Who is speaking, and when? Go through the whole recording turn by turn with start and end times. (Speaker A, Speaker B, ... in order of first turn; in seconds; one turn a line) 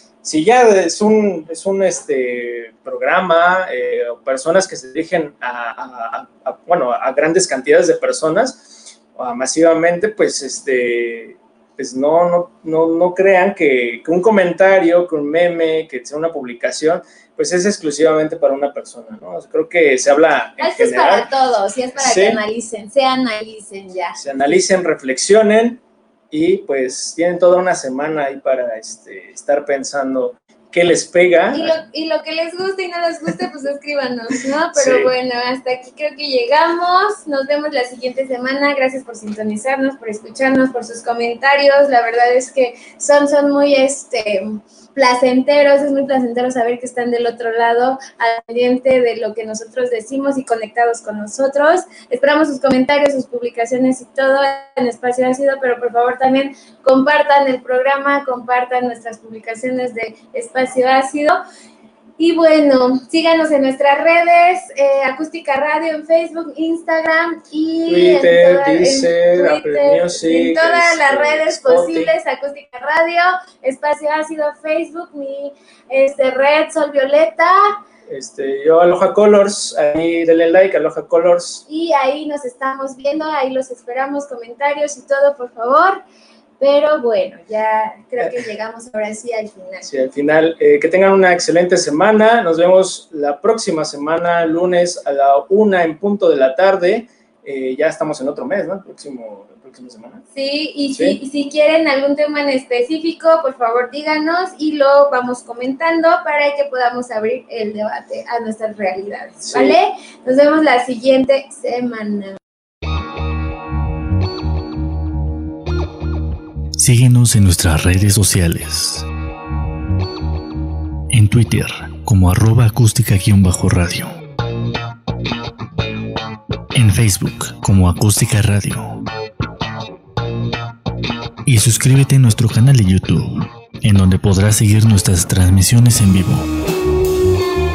Speaker A: 0.2-21.3
Speaker B: 20.6-24.2
Speaker A: 22.0-22.4
Speaker A: 24.2-25.8
Speaker A: 26.3-31.8
Speaker B: 31.5-61.4
Speaker A: 34.7-35.1
Speaker B: 62.2-77.8
Speaker A: 67.9-72.1
Speaker A: 78.1-81.6
Speaker B: 81.7-86.0
Speaker B: 86.6-89.9
Speaker A: 89.8-100.2
Speaker B: 100.3-112.4
Speaker A: 100.9-101.2
Speaker A: 109.4-109.8
Speaker C: 116.8-119.1
Speaker C: 121.1-124.1
Speaker C: 126.7-129.0
Speaker C: 131.4-136.4